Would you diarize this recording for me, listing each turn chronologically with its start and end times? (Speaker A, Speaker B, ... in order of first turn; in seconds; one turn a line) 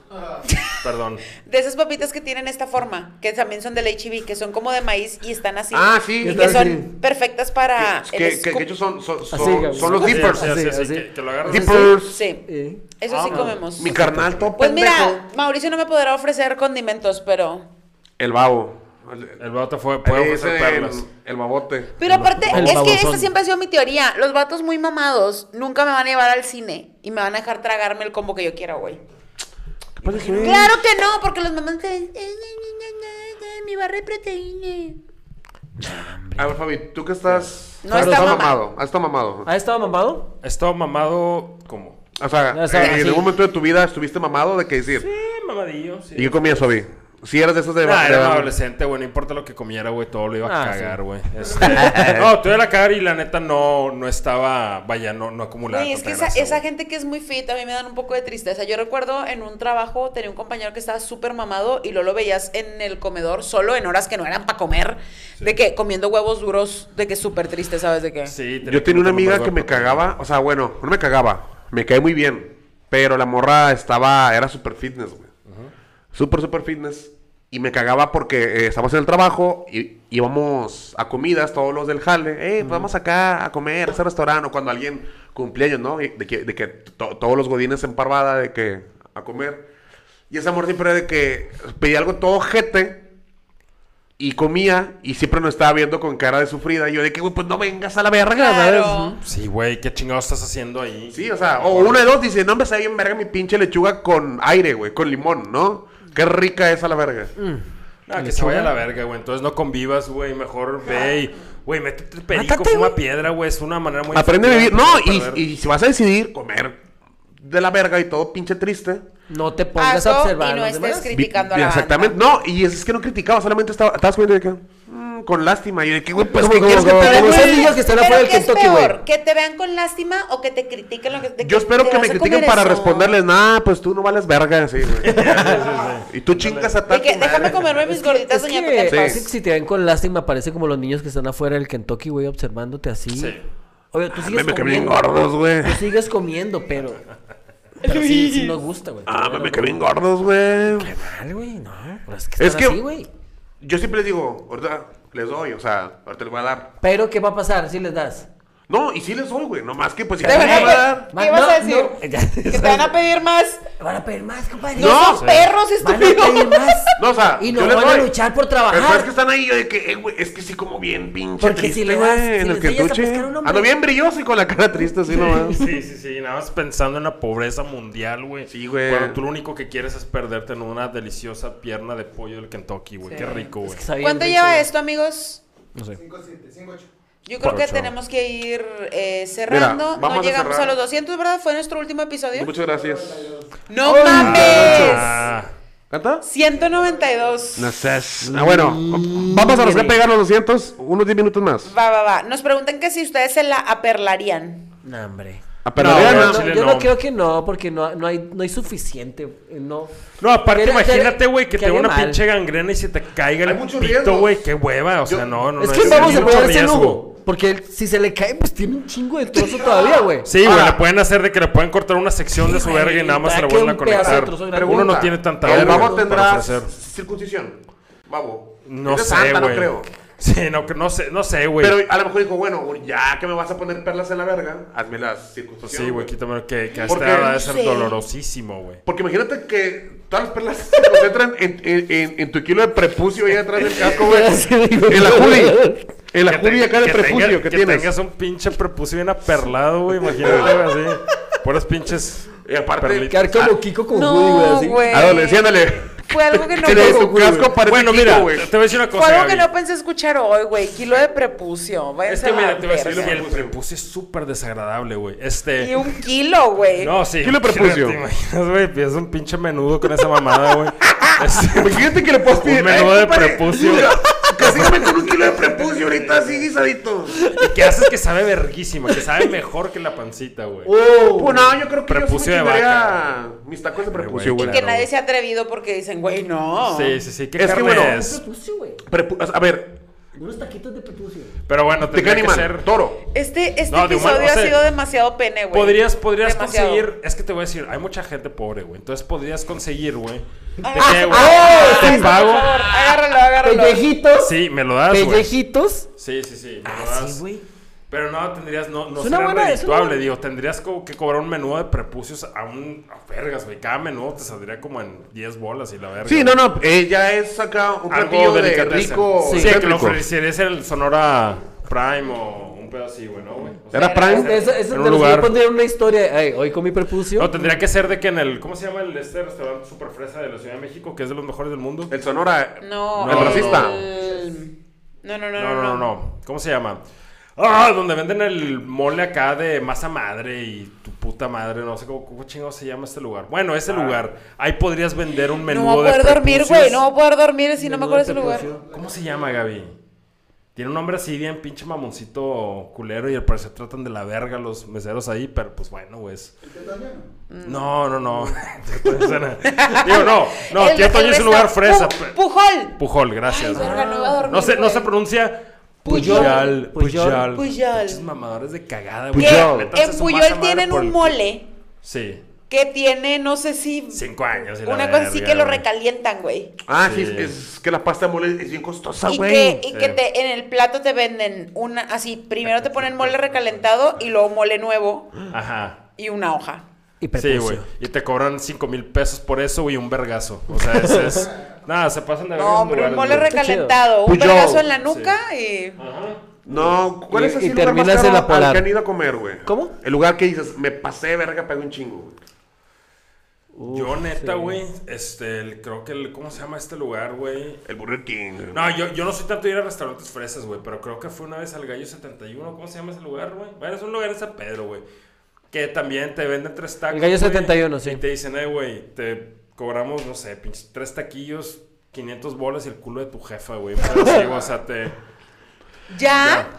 Speaker A: 0.5-0.8
Speaker B: 0.8-1.2
Speaker A: 1.4-8.7
Speaker C: 5.7-6.8
Speaker D: 6.2-6.9
Speaker C: 7.7-10.5
Speaker D: 9.3-14.5
Speaker B: 9.7-11.9
Speaker C: 11.4-12.2
Speaker A: 12.0-12.4
Speaker A: 13.0-17.7
Speaker B: 13.1-13.6
Speaker C: 13.8-15.2
Speaker C: 18.2-19.4
Speaker B: 19.4-21.0
Speaker C: 20.0-22.7
Speaker A: 22.0-29.0
Speaker D: 22.0-23.3
Speaker C: 30.0-30.8
Speaker D: 30.0-30.7
Speaker A: 30.3-35.0
Speaker D: 35.8-36.6
Speaker C: 36.4-39.5
Speaker A: 37.8-38.6
Speaker D: 37.9-38.5
Speaker D: 39.4-40.3
Speaker B: 40.4-42.0
Speaker C: 42.2-45.1
Speaker D: 42.5-43.3
Speaker B: 45.0-46.8
Speaker C: 46.1-48.5
Speaker B: 47.8-56.6
Speaker D: 50.4-51.0
Speaker D: 51.7-52.0
Speaker C: 51.7-52.3
Speaker A: 55.7-68.3
Speaker B: 68.2-70.1
Speaker C: 68.6-75.3
Speaker B: 75.5-75.7
Speaker C: 76.1-89.7
Speaker D: 82.6-82.9
Speaker C: 90.3-93.0
Speaker C: 94.2-99.2
Speaker A: 98.3-99.2
Speaker B: 99.2-102.1
Speaker C: 101.1-107.3
Speaker D: 107.4-108.7
Speaker B: 108.1-115.4
Speaker D: 112.3-113.0
Speaker C: 114.1-116.8
Speaker C: 117.4-119.0
Speaker D: 119.3-121.1
Speaker A: 119.8-122.2
Speaker C: 121.1-127.7
Speaker D: 126.3-129.0
Speaker A: 126.7-133.1
Speaker C: 131.4-135.3
Speaker B: 135.0-136.7
Speaker D: 135.0-135.6
Speaker C: 136.1-137.6
Speaker A: 136.9-139.2
Speaker D: 137.7-143.4
Speaker C: 138.8-139.2
Speaker B: 143.1-143.4
Speaker D: 143.9-145.1
Speaker C: 144.1-145.8
Speaker D: 145.6-147.0
Speaker D: 147.8-149.8
Speaker A: 147.8-148.6
Speaker C: 149.1-150.9
Speaker D: 150.8-153.1
Speaker C: 152.4-152.8
Speaker C: 153.6-156.7
Speaker D: 156.8-158.3
Speaker C: 158.7-161.1
Speaker D: 160.2-162.9
Speaker A: 160.2-163.6
Speaker D: 163.8-165.2
Speaker C: 164.7-165.4
Speaker A: 164.8-166.9
Speaker B: 165.2-165.5
Speaker D: 165.8-169.1
Speaker C: 167.0-168.1
Speaker C: 168.7-175.6
Speaker D: 171.4-173.7
Speaker D: 175.1-175.6
Speaker B: 175.4-183.8
Speaker C: 178.5-179.2
Speaker D: 183.0-184.7
Speaker A: 184.0-185.4
Speaker E: 185.9-186.9
Speaker A: 187.2-192.5
Speaker B: 187.4-187.9
Speaker C: 189.5-190.8
Speaker C: 192.3-193.3
Speaker E: 192.8-193.4
Speaker A: 193.7-195.2
Speaker D: 193.8-195.2
Speaker B: 194.1-195.5
Speaker C: 195.9-196.2
Speaker A: 196.2-197.8
Speaker C: 197.6-201.7
Speaker D: 198.2-200.0
Speaker A: 201.7-204.7
Speaker D: 204.8-209.9
Speaker C: 205.6-206.4
Speaker B: 205.8-206.9
Speaker B: 210.2-217.0
Speaker D: 210.5-212.2
Speaker C: 213.4-214.4
Speaker C: 215.0-216.5
Speaker D: 215.6-220.3
Speaker B: 220.2-226.7
Speaker C: 220.4-220.8
Speaker D: 222.3-225.9
Speaker C: 224.0-229.9
Speaker B: 228.6-231.8
Speaker C: 231.6-236.1
Speaker B: 235.6-238.8
Speaker C: 236.9-237.4
Speaker A: 236.9-238.0
Speaker C: 238.8-247.9
Speaker D: 243.7-245.9
Speaker B: 246.2-253.5
Speaker C: 250.1-250.6
Speaker C: 252.4-253.2
Speaker D: 253.1-255.1
Speaker A: 253.9-257.1
Speaker C: 254.9-258.5
Speaker D: 256.6-257.6
Speaker B: 257.6-259.5
Speaker A: 258.9-263.2
Speaker B: 262.0-265.9
Speaker C: 262.8-263.6
Speaker A: 265.6-266.9
Speaker B: 266.8-274.9
Speaker C: 267.2-268.0
Speaker C: 271.4-277.1
Speaker D: 273.8-274.8
Speaker B: 275.6-276.3
Speaker D: 277.1-277.5
Speaker B: 277.3-280.7
Speaker D: 280.6-281.6
Speaker C: 281.1-284.6
Speaker B: 281.9-283.1
Speaker B: 283.9-284.9
Speaker A: 284.3-287.0
Speaker B: 286.6-288.2
Speaker C: 287.4-288.0
Speaker D: 287.8-288.8
Speaker C: 288.9-289.8
Speaker D: 290.1-291.3
Speaker B: 291.5-292.7
Speaker C: 291.8-293.0
Speaker A: 293.1-296.8
Speaker B: 293.7-294.6
Speaker B: 295.5-302.6
Speaker D: 300.6-304.4
Speaker A: 300.6-303.8
Speaker B: 304.2-305.3
Speaker D: 304.9-305.9
Speaker B: 306.0-307.2
Speaker D: 306.6-307.4
Speaker B: 307.9-316.4
Speaker D: 309.0-310.1
Speaker C: 316.0-320.0
Speaker B: 317.9-325.3
Speaker D: 319.2-319.6
Speaker C: 323.7-324.3
Speaker A: 323.7-324.5
Speaker D: 324.1-327.5
Speaker B: 327.1-331.9
Speaker C: 331.9-333.9
Speaker A: 332.6-335.9
Speaker B: 332.9-333.8
Speaker B: 335.4-336.8
Speaker B: 337.4-346.8
Speaker A: 345.4-348.5
Speaker D: 347.6-348.6
Speaker B: 348.7-349.8
Speaker B: 350.5-356.3
Speaker E: 356.4-357.0
Speaker A: 357.3-357.7
Speaker B: 357.4-362.2
Speaker A: 359.5-364.9
Speaker B: 362.8-371.2
Speaker D: 363.6-364.3
Speaker D: 365.8-367.3
Speaker A: 365.9-366.5
Speaker A: 367.3-368.0
Speaker C: 369.1-369.7
Speaker A: 369.1-371.5
Speaker B: 371.8-372.2
Speaker A: 372.5-376.5
Speaker B: 373.9-375.6
Speaker C: 376.6-379.6
Speaker B: 376.8-377.3
Speaker A: 379.0-385.3
Speaker B: 379.7-380.0
Speaker B: 382.4-383.6
Speaker B: 385.3-385.8
Speaker A: 386.0-386.6
Speaker D: 387.0-387.7
Speaker B: 387.1-393.4
Speaker D: 390.6-391.2
Speaker A: 392.3-395.8
Speaker D: 393.3-393.8
Speaker C: 394.0-394.7
Speaker B: 394.8-395.2
Speaker B: 395.8-396.7
Speaker C: 396.4-402.2
Speaker D: 397.1-398.7
Speaker D: 399.4-399.7
Speaker D: 403.5-404.6
Speaker B: 403.7-407.6
Speaker C: 407.6-408.7
Speaker B: 408.5-414.8
Speaker B: 415.5-424.9
Speaker D: 416.9-418.0
Speaker D: 423.9-424.2
Speaker A: 425.9-426.5
Speaker B: 426.1-426.5